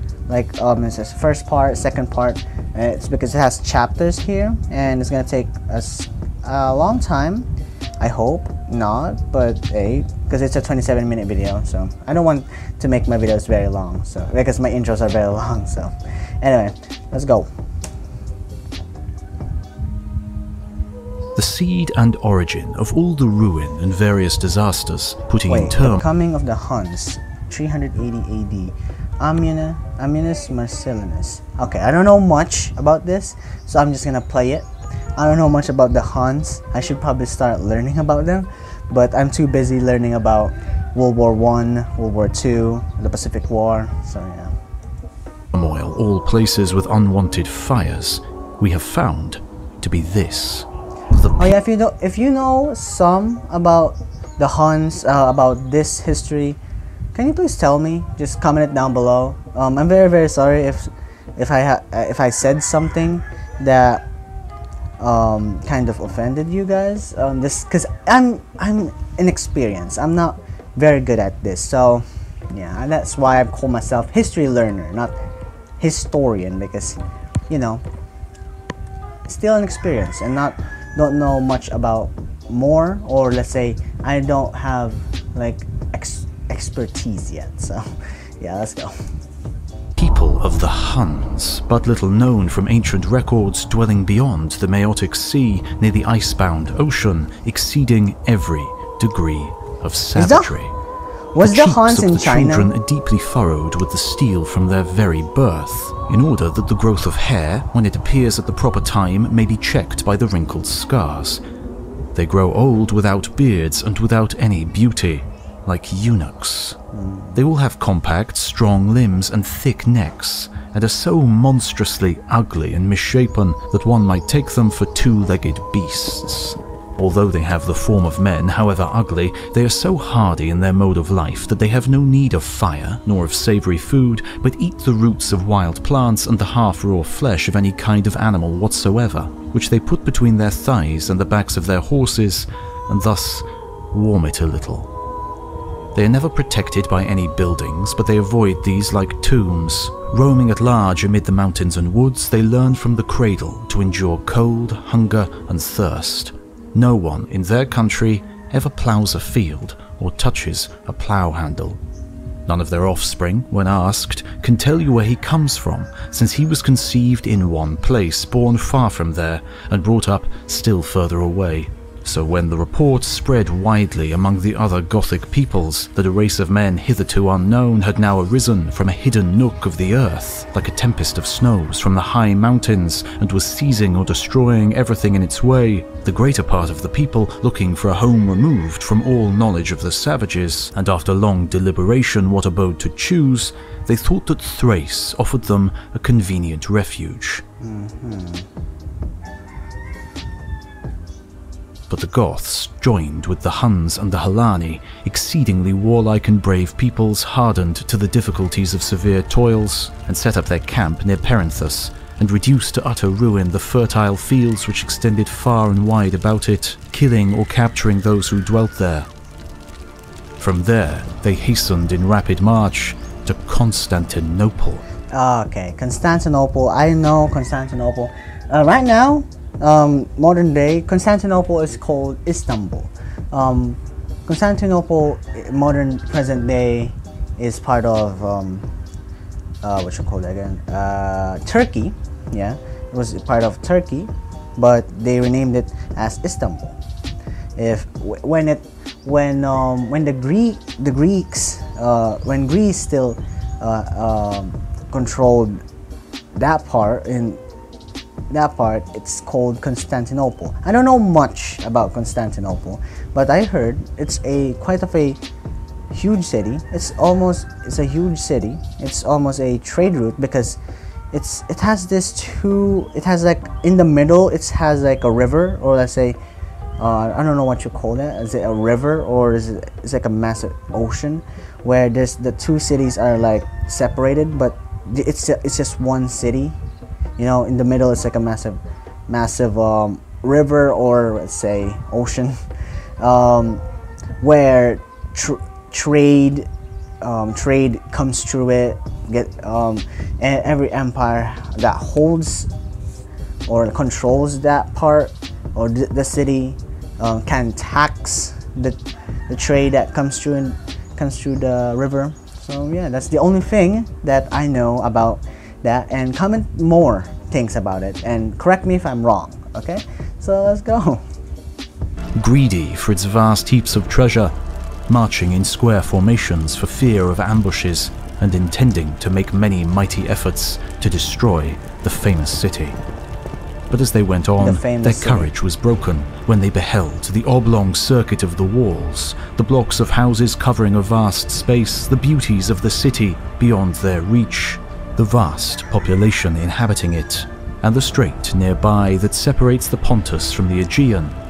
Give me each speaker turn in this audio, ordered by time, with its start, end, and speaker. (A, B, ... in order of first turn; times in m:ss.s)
0:00.3-0:07.5 A
0:08.0-0:17.5 A
0:21.4-0:26.0 B
0:25.5-0:44.6 A
0:45.5-0:51.5 B
0:51.4-0:56.6 A
0:57.1-1:04.0 A
1:05.0-1:15.2 A
1:15.8-1:17.8 A
1:19.3-1:27.9 A
1:28.4-1:29.0 A
1:30.0-1:40.8 B
1:40.2-1:40.5 A
1:41.3-1:42.7 A
1:41.4-1:51.4 B
1:52.2-1:56.8 B
1:56.9-1:57.4 A
1:57.4-2:24.9 B
2:25.9-2:41.8 B
2:42.5-3:17.4 B
3:17.6-3:18.5 A
3:21.9-3:39.1 B
3:40.4-3:44.8 B
3:45.1-3:58.7 A
3:59.6-4:06.8 A
4:07.6-4:15.6 A
4:16.3-4:17.4 A
4:18.3-4:25.2 A
4:25.9-4:30.6 A
4:31.1-4:36.2 A
4:36.8-4:46.6 A
4:47.2-4:52.4 A
4:53.0-4:53.6 A
4:54.2-4:56.5 A
4:57.0-5:02.5 A
5:03.5-5:21.0 A
5:22.2-5:24.3 B
5:24.9-5:32.8 B
5:33.7-5:51.2 B
5:34.4-5:35.3 A